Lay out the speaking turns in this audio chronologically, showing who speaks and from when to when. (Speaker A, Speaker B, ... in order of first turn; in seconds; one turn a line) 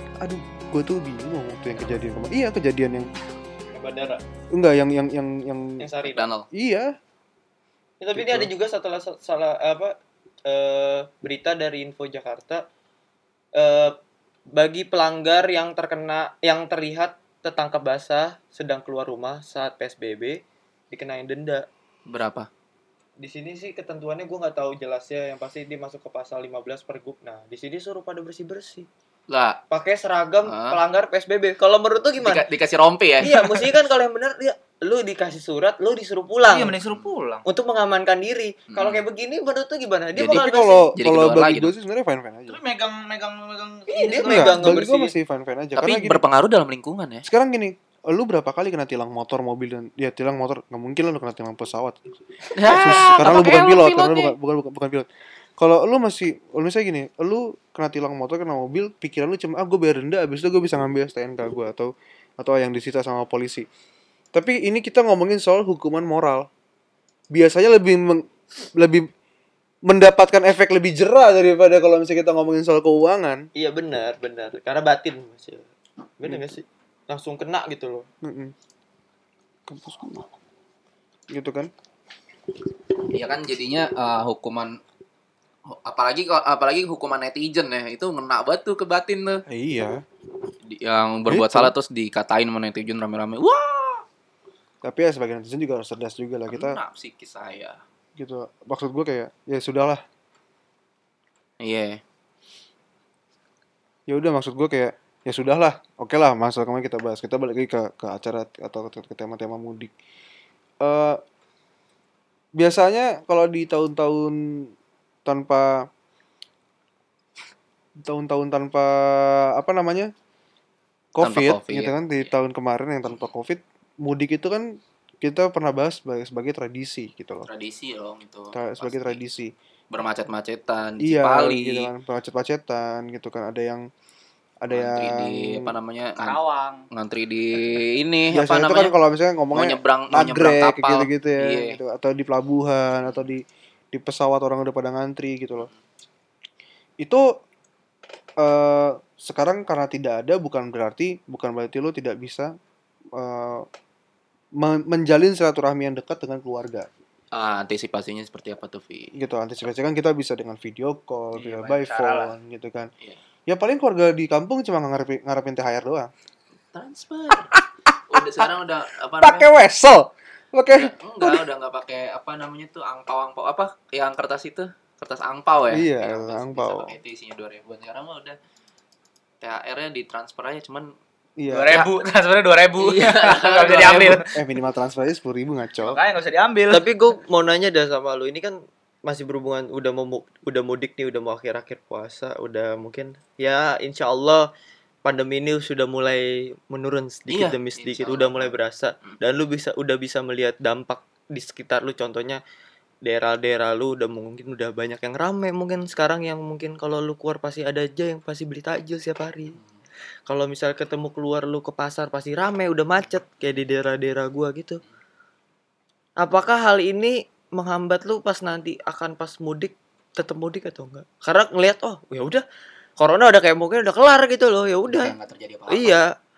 Speaker A: 0.2-3.1
Speaker B: 3.7-4.2
Speaker A: 4.5-5.8
Speaker B: 5.8-6.3
Speaker C: 6.1-6.5
Speaker A: 6.5-6.9
Speaker B: 8.0-9.9
Speaker A: 8.2-8.5
Speaker B: 10.5-12.6
Speaker B: 13.6-13.9
Speaker B: 14.6-20.3
Speaker B: 20.9-21.7
Speaker C: 22.1-22.5
Speaker B: 23.2-28.9
Speaker C: 29.3-29.6
Speaker B: 29.7-32.5
Speaker C: 30.4-30.8
Speaker C: 32.2-33.7
Speaker B: 33.2-36.8
Speaker D: 36.5-37.4
Speaker B: 37.5-40.9
Speaker C: 38.7-39.0
Speaker C: 40.1-40.5
Speaker A: 40.3-42.6
Speaker C: 41.0-41.7
Speaker D: 42.5-44.7
Speaker B: 43.9-45.1
Speaker A: 44.2-46.2
Speaker C: 45.8-47.2
Speaker A: 47.2-52.1
Speaker C: 52.5-54.3
Speaker A: 52.7-55.1
Speaker A: 55.6-63.7
Speaker A: 64.3-66.5
Speaker A: 67.3-68.2
Speaker A: 68.8-69.1
Speaker A: 69.9-73.4
Speaker B: 73.5-75.7
Speaker B: 76.2-78.1
Speaker A: 76.3-76.6
Speaker A: 78.2-78.5
Speaker A: 79.7-80.3
Speaker A: 81.3-81.7
Speaker C: 83.1-84.8
Speaker C: 85.7-89.4
Speaker A: 89.5-90.0
Speaker C: 90.7-94.0
Speaker A: 91.3-91.7
Speaker A: 94.8-96.8
Speaker C: 96.5-97.8
Speaker A: 98.2-100.0
Speaker C: 101.6-102.0
Speaker A: 104.1-109.9
Speaker A: 110.8-111.2
Speaker A: 112.6-114.7
Speaker A: 115.3-115.8
Speaker A: 118.0-120.1
Speaker A: 121.1-124.7
Speaker C: 121.2-122.3
Speaker A: 125.2-127.5
Speaker C: 127.5-129.2
Speaker A: 128.5-129.5
Speaker C: 129.9-131.9
Speaker A: 131.0-133.8
Speaker A: 134.6-135.7
Speaker C: 134.7-136.4
Speaker D: 136.2-136.9
Speaker C: 136.9-138.9
Speaker A: 138.3-145.7
Speaker C: 139.5-141.8
Speaker A: 147.0-147.3
Speaker A: 148.4-152.5
Speaker A: 153.2-153.7
Speaker A: 154.6-156.9
Speaker C: 157.3-159.1
Speaker A: 159.2-162.9
Speaker D: 161.3-162.3
Speaker A: 163.5-166.1
Speaker C: 166.7-169.5
Speaker A: 169.2-171.4
Speaker C: 170.7-178.4
Speaker A: 175.7-176.9
Speaker C: 179.4-180.9
Speaker A: 181.4-181.8
Speaker D: 181.5-184.3
Speaker C: 182.8-184.3
Speaker A: 184.3-186.0
Speaker D: 185.8-186.8
Speaker B: 186.7-194.5
Speaker B: 195.0-202.4
Speaker C: 197.3-198.5
Speaker B: 203.1-209.6
Speaker B: 210.3-214.8
Speaker B: 216.2-222.4
Speaker B: 223.0-225.2
Speaker C: 224.9-226.0
Speaker B: 225.7-226.1